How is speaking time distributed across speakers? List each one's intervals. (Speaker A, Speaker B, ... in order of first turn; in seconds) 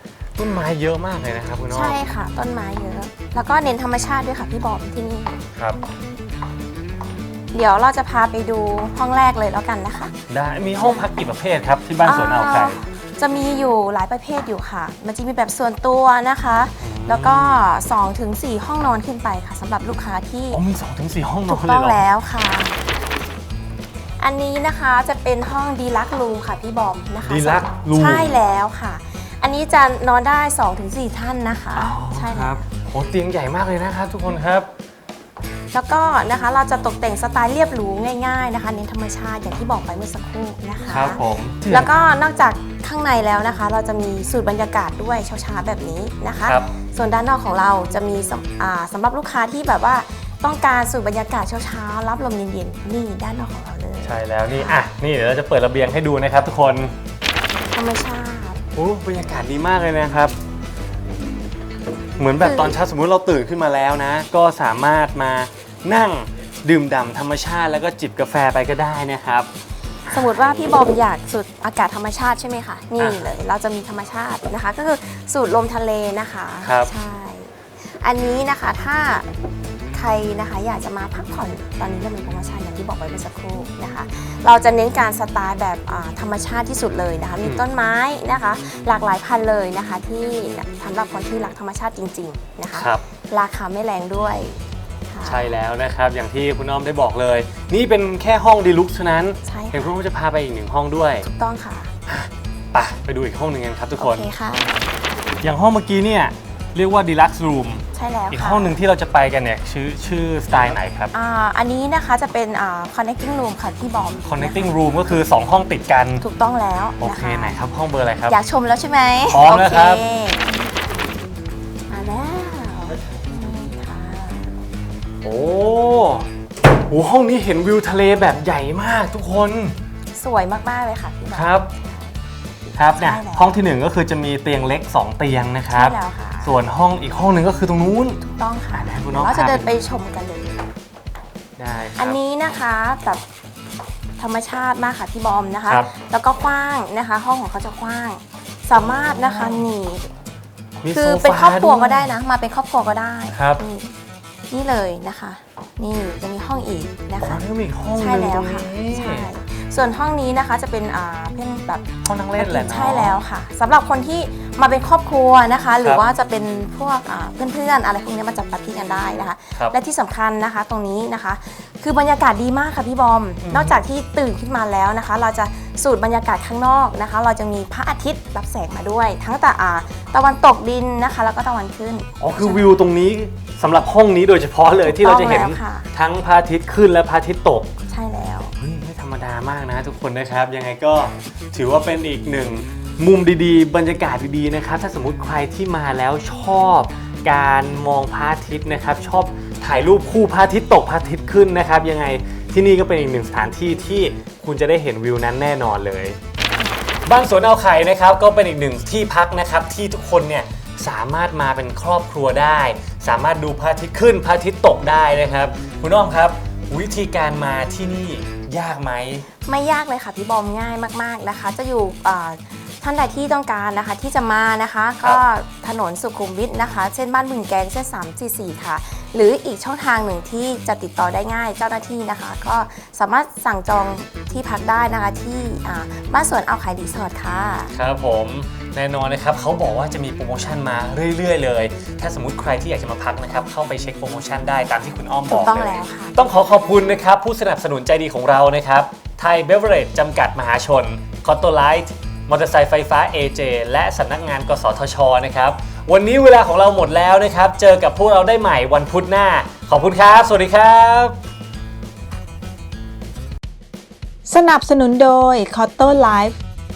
Speaker A: 0.4-2.0, 10.3-12.8, 16.8-17.6, 20.5-22.0, 27.2-28.4, 31.7-34.7, 40.9-42.0, 54.0-56.9, 58.7-60.4, 62.2-69.5, 70.0-70.8, 73.0-73.3, 76.6-76.9, 92.7-93.0, 95.2-101.3, 102.1-104.2, 105.4-111.1, 114.2-116.2, 117.0-118.3, 119.3-120.0, 125.2-126.3, 126.9-129.7, 131.3-131.7, 132.8-138.2, 138.7-139.7, 141.6-142.2, 148.8-149.6, 150.8-152.1, 153.3-153.6, 157.2-159.3, 162.0-163.2, 173.4-173.8, 182.2-187.7, 188.6-206.2, 207.1-219.2, 237.7-261.2
Speaker B: 1.7-5.4, 7.5-10.1, 10.8-11.0, 12.0-20.6, 21.5-22.8, 24.2-32.6, 35.7-54.8, 57.7-58.6, 62.4-62.8, 70.1-79.3, 79.9-95.5, 99.4-100.0, 101.2-101.9, 104.0-104.9, 107.9-108.8, 111.1-114.8, 116.2-117.5, 118.3-120.7, 121.9-124.5, 130.1-132.2, 132.7-133.6, 135.7-136.6, 138.2-140.7, 142.0-143.2, 144.2-150.1, 150.9-153.9, 154.5-157.4, 157.9-182.8, 184.8-185.9, 187.9-188.5, 206.5-206.9, 219.4-237.7, 245.3-246.2
Speaker C: 264.3-266.4